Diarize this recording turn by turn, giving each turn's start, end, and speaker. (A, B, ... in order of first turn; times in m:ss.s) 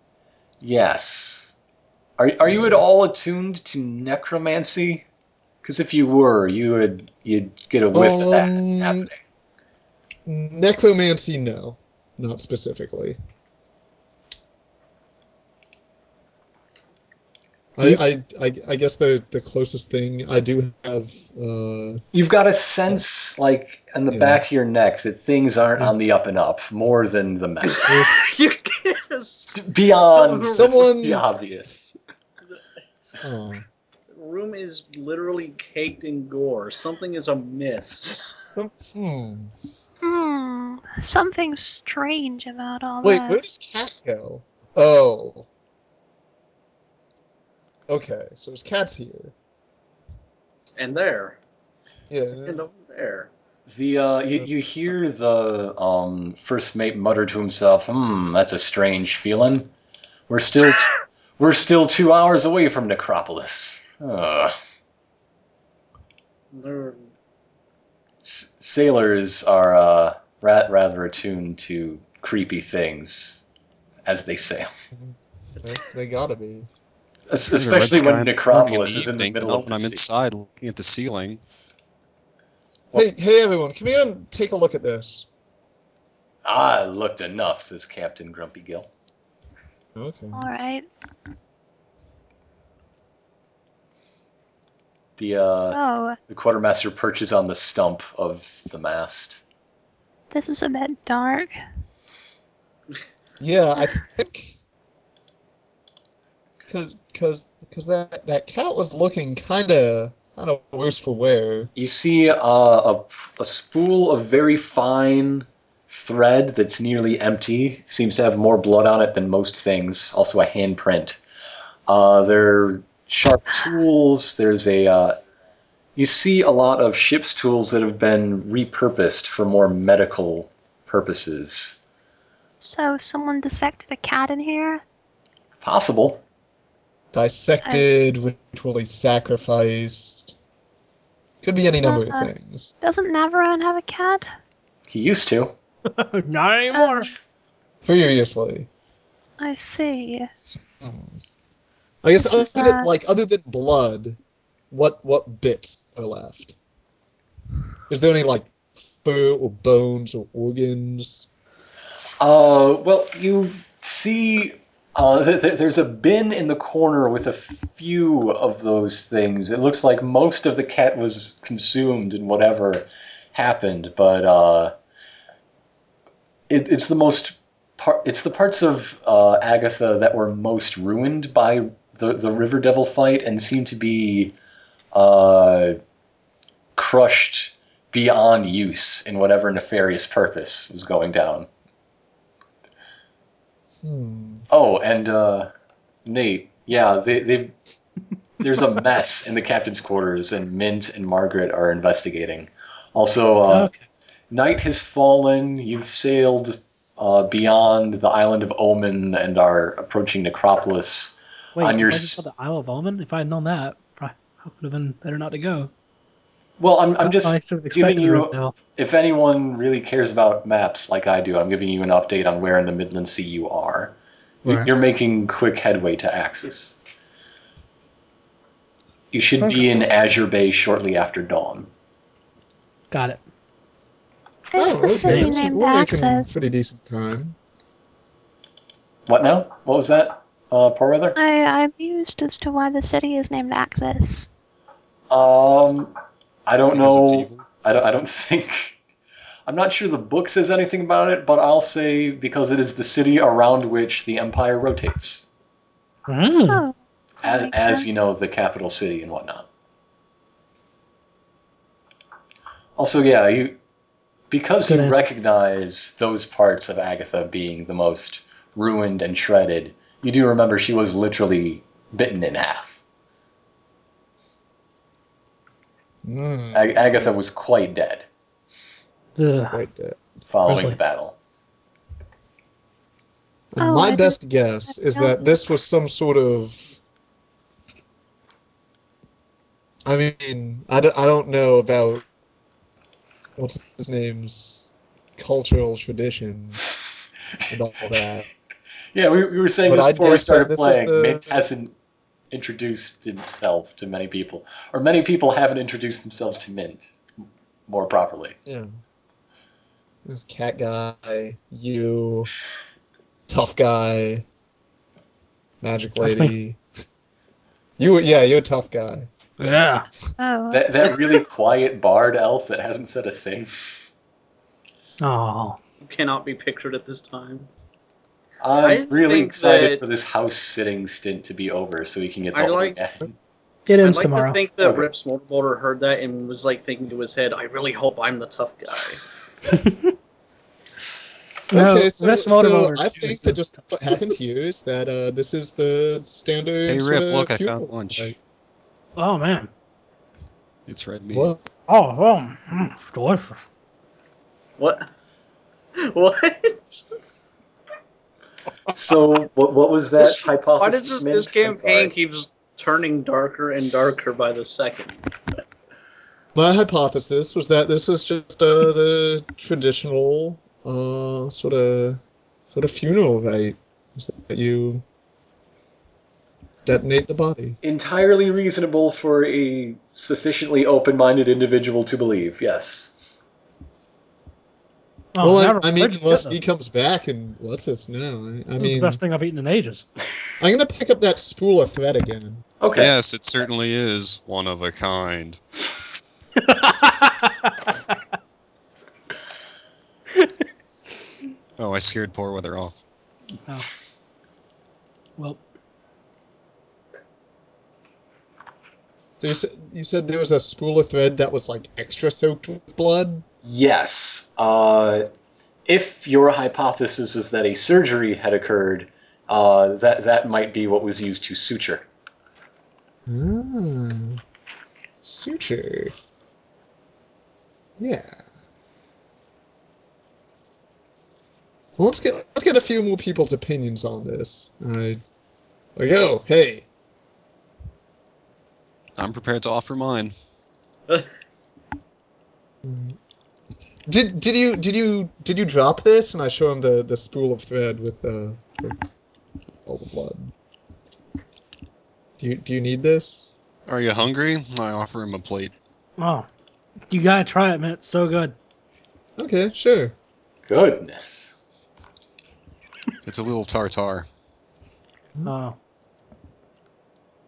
0:00.6-0:01.5 A
0:02.2-0:05.0 A
0:02.4-0:02.8 B
0:05.6-0:09.1 A
0:07.9-0:09.1 B
0:10.2-0:13.2 B
0:17.8-0:22.0 B
0:22.1-0:28.0 A
0:24.1-0:24.4 B
0:27.7-0:30.9 C
0:27.9-0:28.3 B
0:29.6-0:32.0 A
0:30.5-0:31.2 B
0:33.2-0:33.6 B
0:34.1-0:38.3 C
0:38.5-0:39.5 B
0:40.0-0:43.5 D
0:43.0-0:45.5 B
0:47.9-0:49.3 B
0:50.8-0:51.4 C
0:52.1-0:52.6 B
0:52.3-0:53.3 C
0:53.7-0:59.7 A
1:00.3-1:04.5 A
1:06.5-1:07.1 C
1:08.2-1:13.4 A
1:14.0-1:14.7 A
1:14.9-1:16.7 B
1:17.3-1:20.0 A
1:17.5-1:21.4 E
1:22.9-1:25.3 B
1:26.4-1:28.9 A
1:30.0-1:30.5 B
1:30.3-1:30.9 D
1:35.2-1:39.4 A
1:35.7-1:36.2 D
1:40.3-1:41.6 D
1:43.4-1:44.6 B
1:46.7-1:51.7 B
1:51.8-2:01.2 A
2:01.9-2:05.2 A
2:06.0-2:11.8 A
2:12.6-2:14.8 D
2:15.6-2:16.2 A
2:17.1-2:20.4 B
2:21.4-2:22.7 B
2:21.6-2:22.3 D
2:22.8-2:24.3 D
2:24.9-2:25.5 A
2:26.0-2:27.1 F
2:26.7-2:27.1 D
2:27.8-2:28.7 B
2:29.4-2:30.3 D
2:30.6-2:31.2 B
2:32.0-2:34.2 B
2:32.2-2:32.9 D
2:34.7-2:36.6 B
2:37.9-2:41.3 B
2:42.2-2:54.7 A
2:56.5-3:04.4 A
3:04.9-3:05.8 A
3:06.8-3:11.5 A
3:13.8-3:14.5 B
3:14.5-3:15.5 A
3:16.0-3:17.5 A
3:18.4-3:23.7 A
3:23.5-3:23.8 F
3:24.3-3:32.2 A
3:31.6-3:35.7 F
3:36.6-3:46.8 A
3:37.0-3:38.6 F
3:44.4-3:44.7 F
3:49.1-3:51.7 A
3:49.4-3:49.7 F
3:52.9-3:53.2 F
3:54.5-3:56.3 D
3:54.6-3:57.4 B
3:55.0-3:55.6 F
3:59.1-4:01.2 A
4:01.2-4:04.3 D
4:05.1-4:05.9 A
4:06.4-4:08.8 A
4:06.7-4:07.5 E
4:09.5-4:15.3 A
4:16.0-4:16.6 F
4:16.5-4:18.0 D
4:17.2-4:19.5 A
4:22.8-4:23.6 A
4:24.3-4:32.8 A
4:24.6-4:25.0 F
4:36.0-4:36.8 B
4:36.5-4:38.1 A
4:39.2-4:39.6 F
4:39.5-4:40.0 B
4:40.3-4:41.2 A
4:40.4-4:40.8 F
4:43.5-4:46.8 B
4:43.6-4:45.2 D
4:49.8-4:52.0 B
4:53.4-4:56.8 B
4:57.5-4:58.3 B
4:58.9-5:01.7 A
4:59.7-5:01.4 B
5:02.3-5:06.9 A
5:07.7-5:08.4 A
5:08.4-5:08.7 B
5:10.0-5:12.3 B
5:13.3-5:14.2 B
5:15.6-5:16.6 B
5:16.0-5:16.3 F
5:17.8-5:19.1 B
5:19.4-5:19.9 F
5:20.2-5:20.9 D
5:20.5-5:23.5 A
5:25.0-5:25.6 F
5:25.8-5:27.5 C
5:28.4-5:33.1 A
5:28.6-5:29.8 C
5:32.3-5:32.8 C
5:33.6-5:34.4 F
5:33.8-5:39.1 C
5:39.5-5:39.9 F
5:41.5-5:44.0 F
5:41.5-5:48.2 B
5:46.7-5:48.1 E
5:49.0-5:49.5 F
5:50.7-5:51.4 E
5:51.1-5:51.4 B
5:51.7-5:53.4 F
5:54.6-5:54.9 C
5:55.8-5:56.8 C
5:58.7-6:01.9 A
6:00.0-6:05.0 C
6:06.3-6:12.0 B
6:12.5-6:14.8 B
6:16.6-6:17.6 B
6:17.6-6:22.9 A
6:25.2-6:26.4 F
6:25.2-6:29.0 B
6:28.6-6:29.9 F
6:30.4-6:32.4 B
6:32.6-6:32.9 A
6:32.7-6:35.4 E
6:36.4-6:37.7 F
6:41.6-6:42.8 E
6:45.2-6:45.4 F
6:49.2-6:53.2 B
6:53.4-6:55.1 A
6:55.6-7:01.9 A
7:03.1-7:04.2 B
7:05.0-7:05.9 B
7:07.8-7:08.2 B
7:11.8-7:15.0 B
7:15.8-7:16.6 B
7:19.0-7:20.1 E
7:22.6-7:23.0 B
7:23.9-7:28.8 B
7:29.6-7:30.3 B
7:32.2-7:33.3 B
7:33.7-7:35.5 E
7:36.0-7:36.3 F
7:36.9-7:38.4 F
7:39.2-7:39.9 B
7:40.5-7:41.4 A
7:43.0-7:44.1 E
7:45.2-7:45.6 F